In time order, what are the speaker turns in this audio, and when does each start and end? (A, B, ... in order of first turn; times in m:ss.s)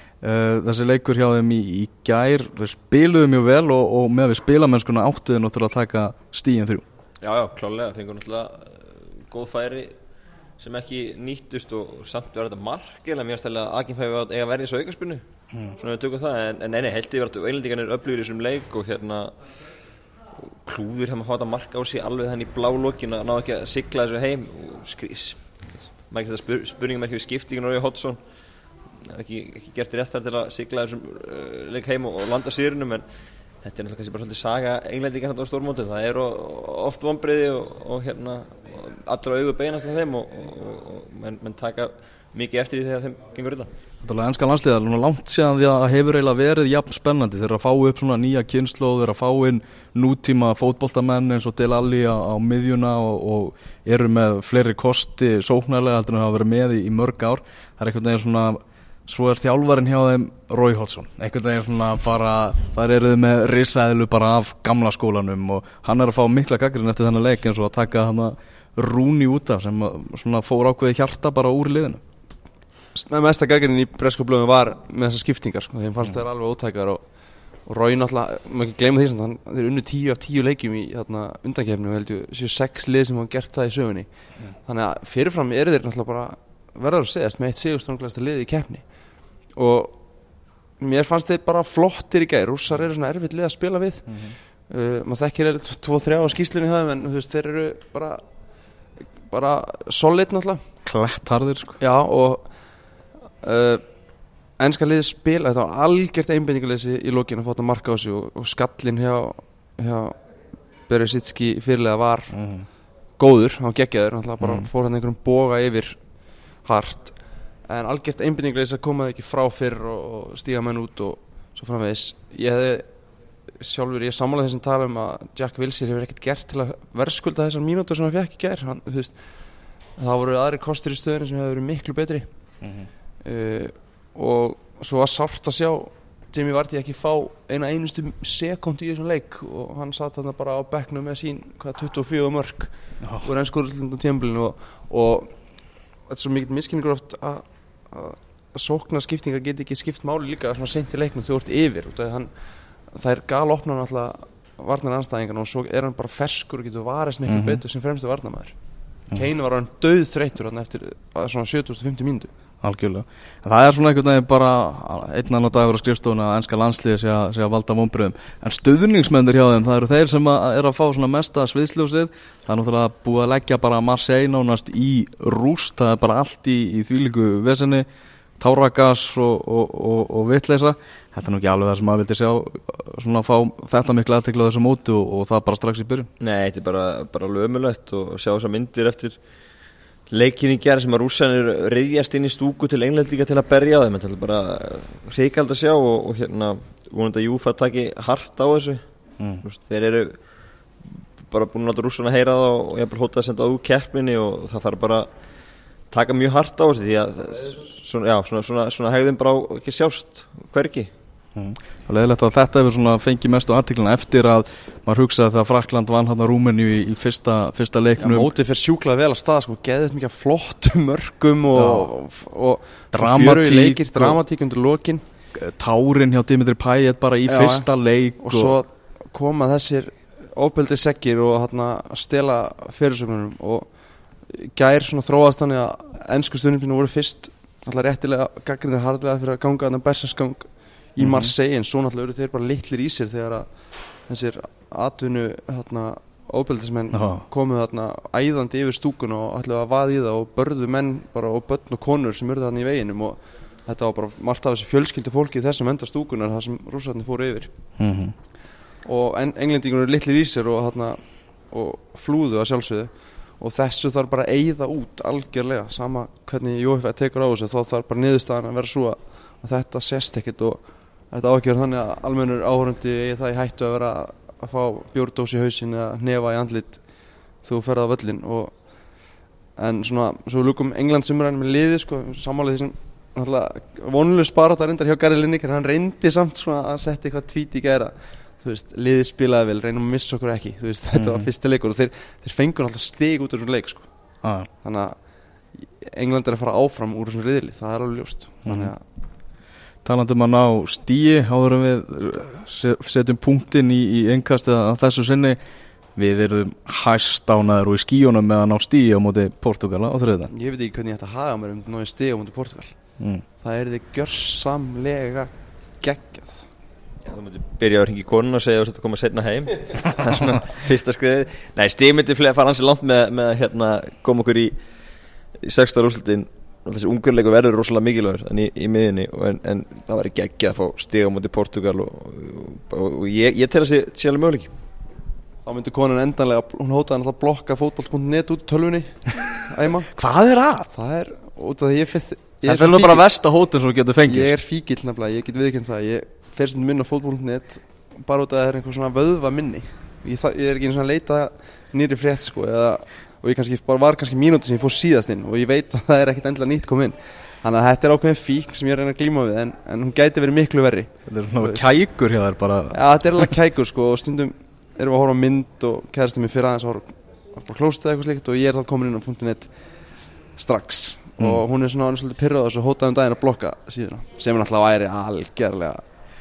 0:00.2-0:06.8 A
0:07.2-0:09.9 B
0:10.6-0:15.2 B
0:15.8-0:19.3 B
0:20.4-0:25.4 B
0:26.0-0:28.2 B
0:29.0-0:33.0 B
0:33.6-0:43.7 B
0:44.0-1:12.0 A
1:12.9-1:17.0 C
1:17.6-1:28.8 C
1:29.5-1:30.0 C
1:30.8-1:38.2 C
1:34.1-1:34.3 A
1:39.2-1:40.6 C
1:40.8-1:41.8 A
1:41.8-1:42.5 C
1:43.4-1:43.8 C
1:44.6-1:50.2 C
1:50.9-1:52.4 C
1:52.3-1:52.7 A
1:53.2-1:56.0 C
1:54.4-1:54.7 A
1:56.6-1:57.2 C
1:57.7-2:02.9 C
2:03.5-2:09.2 C
2:10.0-2:12.3 C
2:12.6-2:12.9 A
2:13.2-2:25.3 C
2:23.0-2:23.3 A
2:26.1-2:32.3 C
2:32.9-2:38.6 C
2:37.3-2:37.6 A
2:39.1-2:42.3 C
2:42.6-2:57.8 A
2:58.4-3:06.1 A
3:06.2-3:09.2 B
3:10.1-3:18.8 B
3:19.4-3:20.2 B
3:20.8-3:25.1 B
3:25.9-3:30.9 B
3:31.4-3:38.3 A
3:38.0-3:45.0 C
3:41.5-3:41.9 A
3:42.9-3:44.2 A
3:45.4-3:48.6 A
3:47.2-3:47.7 C
3:48.2-3:53.7 C
3:54.2-4:03.5 C
4:01.0-4:01.3 A
4:04.1-4:17.5 C
4:06.9-4:07.2 A
4:17.8-4:18.1 A
4:18.8-4:36.8 C
4:37.4-4:39.0 C
4:39.6-4:53.9 C
4:50.9-4:51.3 A
4:54.2-4:54.5 A
4:54.6-4:55.0 C
4:55.5-4:58.8 C
4:58.4-4:58.7 A
4:59.8-5:05.4 A
5:06.0-5:10.3 A
5:10.3-5:12.7 C
5:13.0-5:13.2 A
5:13.4-5:16.5 C
5:17.0-5:24.5 B
5:25.4-5:34.5 B
5:35.4-5:39.9 C
5:39.9-5:40.7 A
5:40.7-5:43.0 C
5:42.4-5:44.3 A
5:44.0-6:01.7 C
6:01.1-6:02.8 A
6:02.7-6:09.6 C
6:10.3-6:15.8 C